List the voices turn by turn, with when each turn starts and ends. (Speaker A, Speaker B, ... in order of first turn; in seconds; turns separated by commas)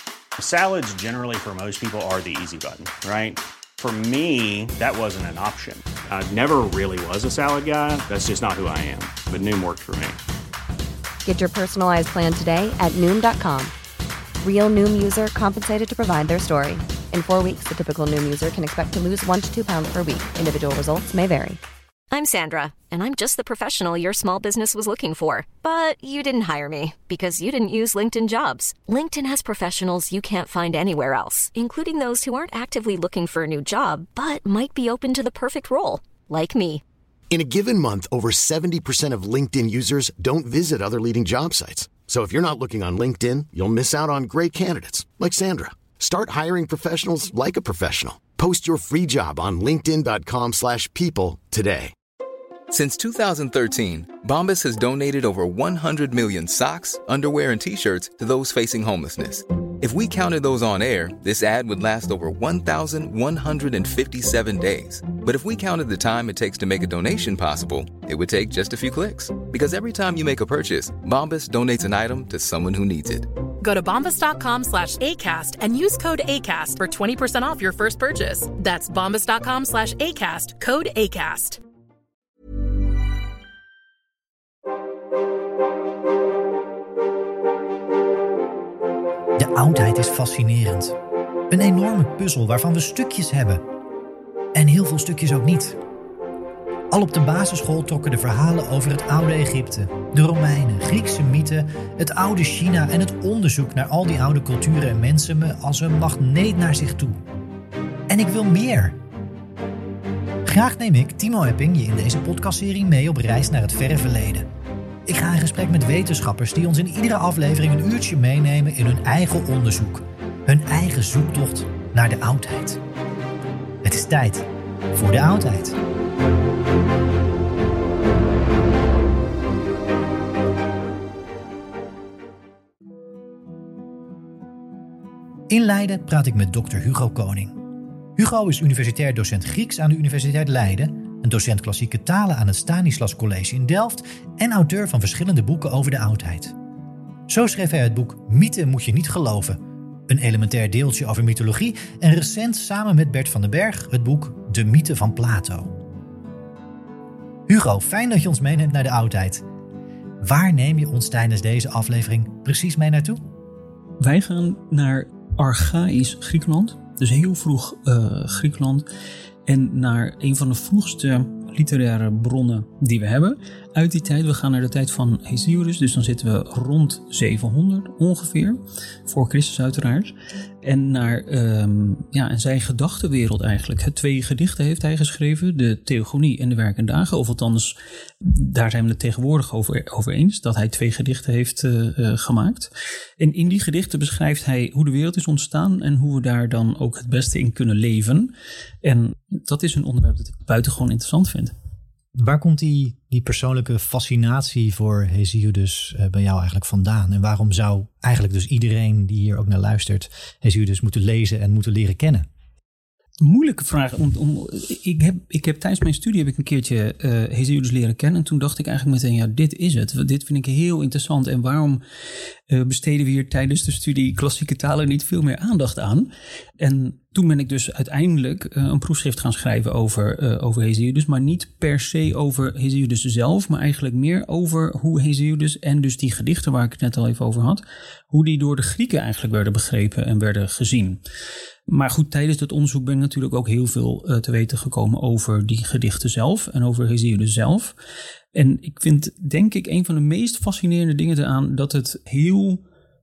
Speaker A: 0.4-10.2, Speaker B: 11.2-13.7, Speaker B: 14.4-21.6, Speaker C: 22.1-36.8, Speaker D: 37.3-51.9, Speaker E: 52.7-73.3, Speaker F: 73.6-81.6, Speaker G: 89.4-91.0, Speaker G: 91.5-93.6, Speaker G: 94.5-95.8, Speaker G: 96.9-107.2, Speaker G: 108.1-109.0, Speaker G: 110.5-114.5, Speaker G: 115.1-122.8, Speaker G: 123.8-125.8, Speaker G: 135.5-137.6, Speaker G: 138.2-146.6, Speaker G: 147.3-155.8, Speaker G: 157.5-159.4, Speaker G: 160.2-163.2, Speaker H: 164.0-168.9, Speaker H: 169.5-201.5, Speaker G: 202.2-212.3, Speaker H: 213.2-221.8, Speaker H: 222.5-241.0, Speaker H: 241.7-247.8, Speaker H: 248.3-252.6